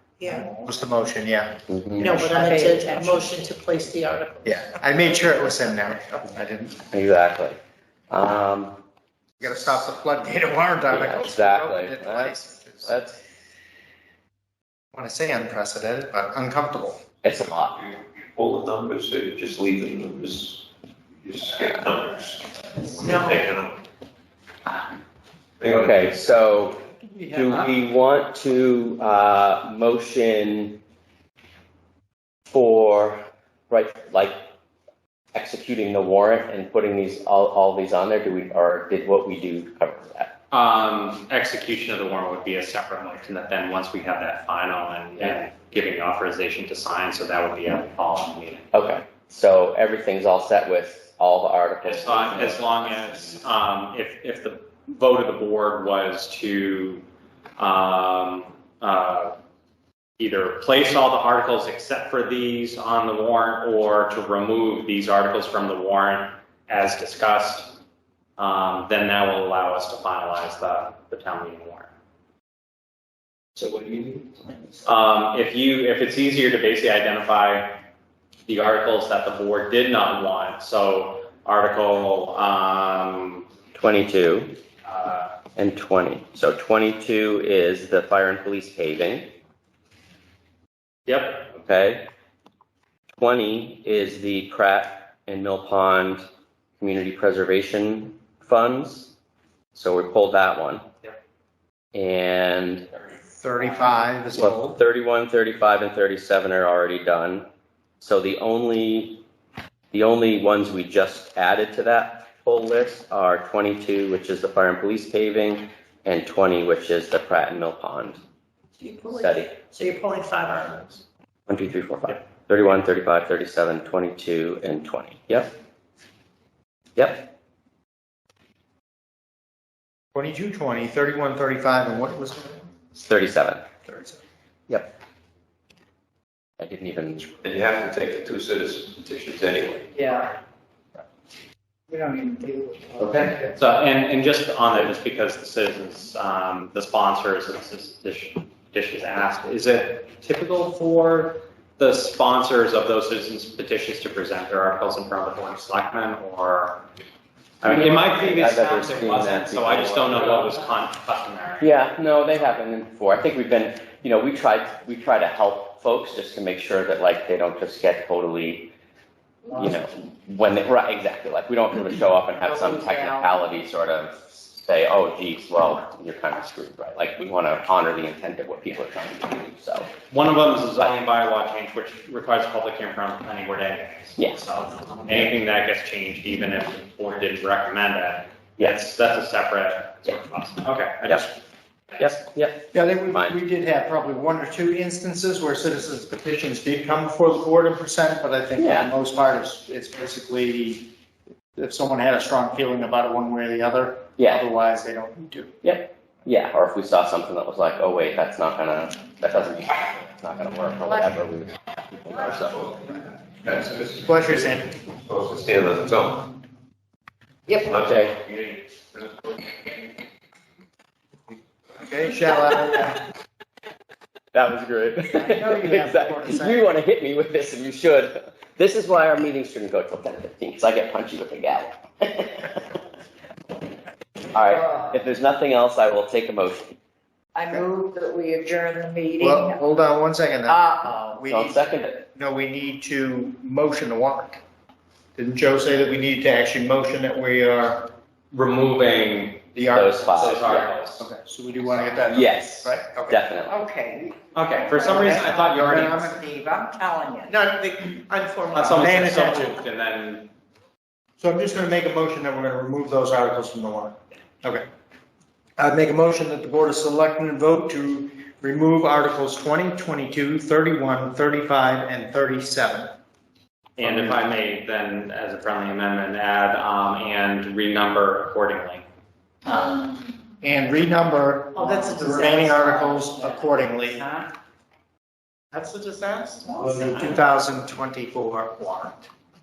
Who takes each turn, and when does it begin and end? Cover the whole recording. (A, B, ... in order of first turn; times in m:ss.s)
0:00.4-0:02.5 A
0:01.7-0:02.2 B
0:02.0-0:04.6 C
0:02.1-0:03.2 D
0:04.4-0:06.8 A
0:06.9-0:07.6 B
0:08.1-0:08.8 B
0:09.4-0:13.0 A
0:10.9-0:13.2 B
0:14.9-0:17.0 A
0:17.2-0:17.8 B
0:18.3-0:20.6 E
0:21.2-0:23.8 E
0:25.6-0:26.2 E
0:25.7-0:30.8 B
0:27.0-0:27.5 A
0:32.5-0:34.4 B
0:35.3-0:40.4 B
0:40.5-0:48.8 F
0:48.7-0:52.8 B
0:51.8-0:57.0 F
0:57.6-0:59.4 F
1:00.2-1:07.8 F
1:08.4-1:11.9 F
1:13.6-1:14.3 E
1:14.8-1:17.8 F
1:18.5-1:23.5 F
1:23.7-1:24.6 B
1:24.8-1:25.4 F
1:25.6-1:29.3 B
1:31.1-1:31.5 F
1:31.5-1:32.1 B
1:33.1-1:36.2 B
1:36.8-1:39.1 B
1:39.7-1:40.8 B
1:41.9-1:42.9 B
1:43.3-1:44.8 A
1:43.7-1:47.4 B
1:48.0-1:49.2 B
1:49.9-1:58.2 B
1:58.8-2:01.0 C
1:59.1-1:59.6 B
2:01.5-2:05.5 B
2:07.0-2:07.3 B
2:10.1-2:12.7 A
2:12.9-2:13.6 B
2:13.9-2:14.2 A
2:16.6-2:17.3 B
2:17.4-2:19.9 E
2:19.9-2:20.4 D
2:21.9-2:23.5 D
2:23.5-2:36.8 F
2:37.6-2:41.8 F
2:37.6-2:40.6 B
2:41.6-2:48.7 B
2:49.5-2:59.9 B
2:52.4-2:53.3 D
3:00.1-3:11.3 F
3:12.0-3:13.4 B
3:12.7-3:20.9 A
3:18.6-3:18.9 B
3:21.6-3:25.5 A
3:24.2-3:24.4 B
3:25.6-3:32.7 B
3:33.4-3:36.3 E
3:34.0-3:34.7 A
3:37.6-3:39.0 E
3:37.7-3:38.1 B
3:41.8-3:43.0 A
3:44.3-3:52.8 B
3:45.1-3:46.7 A
3:54.3-3:56.8 B
3:54.5-3:55.0 D
3:57.3-3:59.6 D
3:59.2-4:04.4 A
4:00.5-4:01.2 D
4:01.3-4:02.1 B
4:05.2-4:07.9 A
4:08.3-4:09.5 F
4:09.5-4:10.1 A
4:09.7-4:10.7 B
4:10.1-4:11.0 F
4:11.0-4:13.2 A
4:12.1-4:13.6 B
4:13.5-4:17.4 D
4:14.3-4:16.1 F
4:14.8-4:16.1 A
4:17.3-4:19.6 A
4:18.5-4:20.3 F
4:21.2-4:24.7 A
4:25.6-4:32.9 A
4:33.8-4:38.9 F
4:33.8-4:34.2 A
4:39.5-4:40.0 D
4:40.4-4:44.0 A
4:41.6-4:44.3 D
4:45.5-4:49.1 A
4:46.6-4:46.9 D